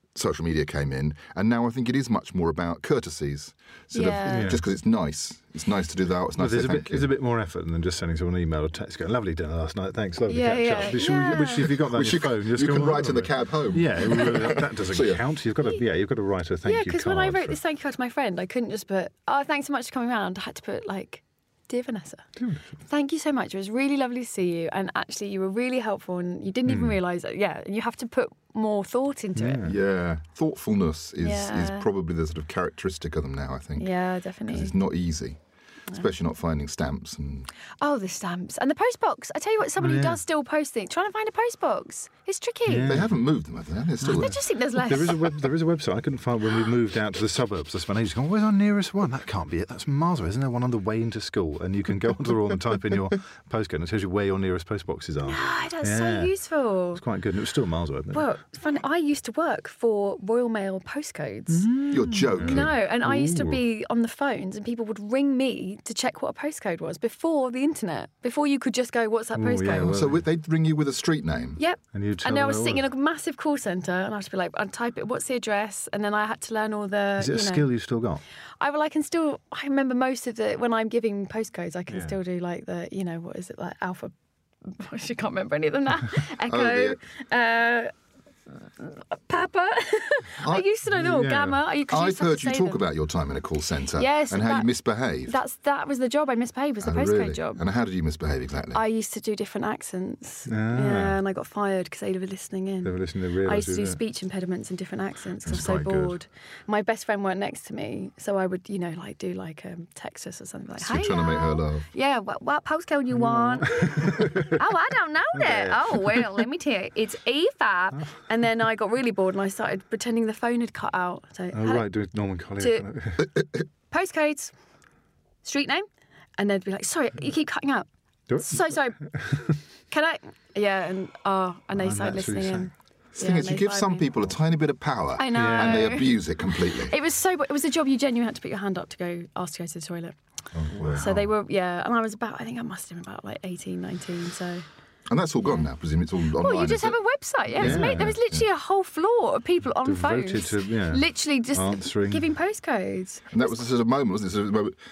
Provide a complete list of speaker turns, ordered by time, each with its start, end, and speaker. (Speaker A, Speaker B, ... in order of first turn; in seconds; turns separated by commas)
Speaker A: 0.1-7.1, Speaker B: 3.9-4.5, Speaker C: 4.3-4.6, Speaker C: 6.4-17.6, Speaker B: 10.3-11.7, Speaker A: 11.8-15.2, Speaker B: 16.6-22.2, Speaker C: 22.4-22.6, Speaker B: 22.9-29.6, Speaker C: 26.7-27.0, Speaker C: 29.4-29.8, Speaker A: 29.6-33.9, Speaker B: 31.2-31.9, Speaker B: 33.8-34.7, Speaker A: 34.5-35.4, Speaker A: 35.9-37.5, Speaker B: 37.8-43.0, Speaker C: 39.8-40.2, Speaker C: 42.7-43.2, Speaker A: 42.9-44.4, Speaker B: 44.0-45.2, Speaker C: 44.0-56.3, Speaker B: 55.2-57.0, Speaker C: 57.0-58.3, Speaker B: 58.1-61.7, Speaker C: 61.5-63.6, Speaker A: 61.9-62.7, Speaker B: 62.4-70.0, Speaker C: 69.3-70.2, Speaker A: 69.7-71.6, Speaker B: 71.6-77.7, Speaker C: 71.9-72.8, Speaker C: 77.2-78.2, Speaker B: 78.6-84.1, Speaker C: 81.9-82.2, Speaker B: 84.7-87.9, Speaker A: 86.5-87.0, Speaker B: 88.8-92.8, Speaker A: 90.4-90.7, Speaker C: 90.9-91.6, Speaker A: 91.9-95.4, Speaker B: 94.0-94.7, Speaker B: 95.3-97.6, Speaker A: 96.8-98.8, Speaker B: 98.7-121.9, Speaker C: 100.5-101.2, Speaker C: 102.8-104.0, Speaker A: 105.5-105.9, Speaker C: 105.5-106.0, Speaker A: 110.8-111.9, Speaker C: 113.1-114.6, Speaker C: 115.4-116.4, Speaker C: 121.5-123.3, Speaker B: 122.6-122.8, Speaker B: 123.9-124.5, Speaker B: 125.4-125.9, Speaker B: 126.4-127.9, Speaker C: 128.3-129.6, Speaker B: 128.4-129.0, Speaker B: 129.9-134.1, Speaker C: 131.8-132.7, Speaker A: 133.2-136.9, Speaker B: 135.2-140.1, Speaker C: 135.3-136.0, Speaker A: 140.5-141.1, Speaker C: 140.7-141.1, Speaker B: 140.9-144.6, Speaker A: 145.1-148.4, Speaker B: 146.4-153.7, Speaker C: 147.6-148.2, Speaker C: 149.8-152.3, Speaker A: 153.3-154.8